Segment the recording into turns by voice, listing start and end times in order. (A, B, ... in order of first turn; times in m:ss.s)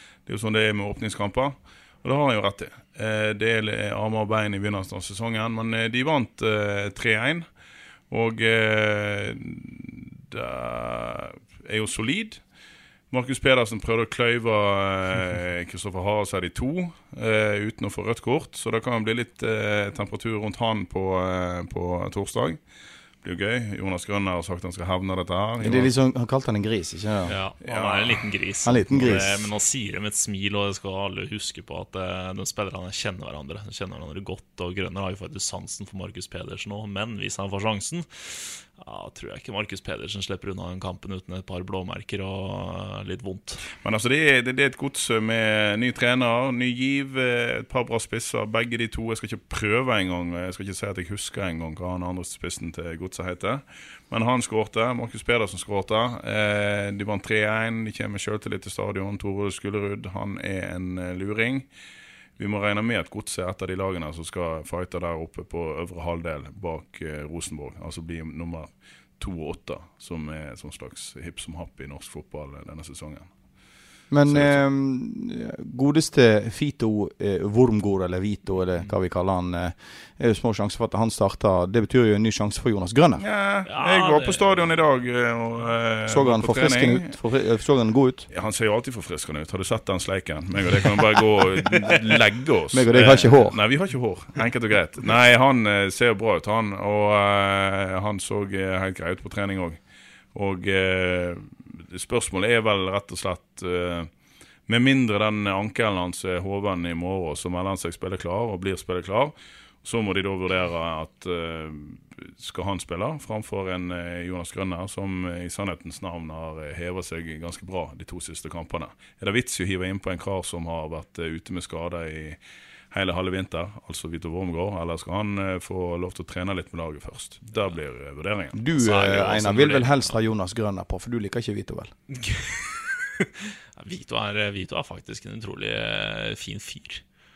0:00.3-0:07.5 A
0:08.1-0:12.4 A
0:13.1-0:22.6 A
0:23.2-0:25.9 A
0:25.6-0:27.3 B
0:27.3-0:43.7 C
0:27.6-0:28.3 A
0:28.6-0:29.4 B
0:43.8-1:01.7 A
1:02.4-1:13.3 A
1:14.1-1:23.2 B
1:14.3-1:14.6 A
1:23.2-1:27.2 A
1:23.7-1:24.6 C
1:26.1-1:28.3 B
1:28.3-1:39.8 A
1:32.7-1:33.6 B
1:40.3-1:44.1 A
1:44.7-2:02.4 A
2:02.9-2:08.6 A
2:08.5-2:11.9 B
2:08.8-2:10.1 C
2:12.1-2:17.0 C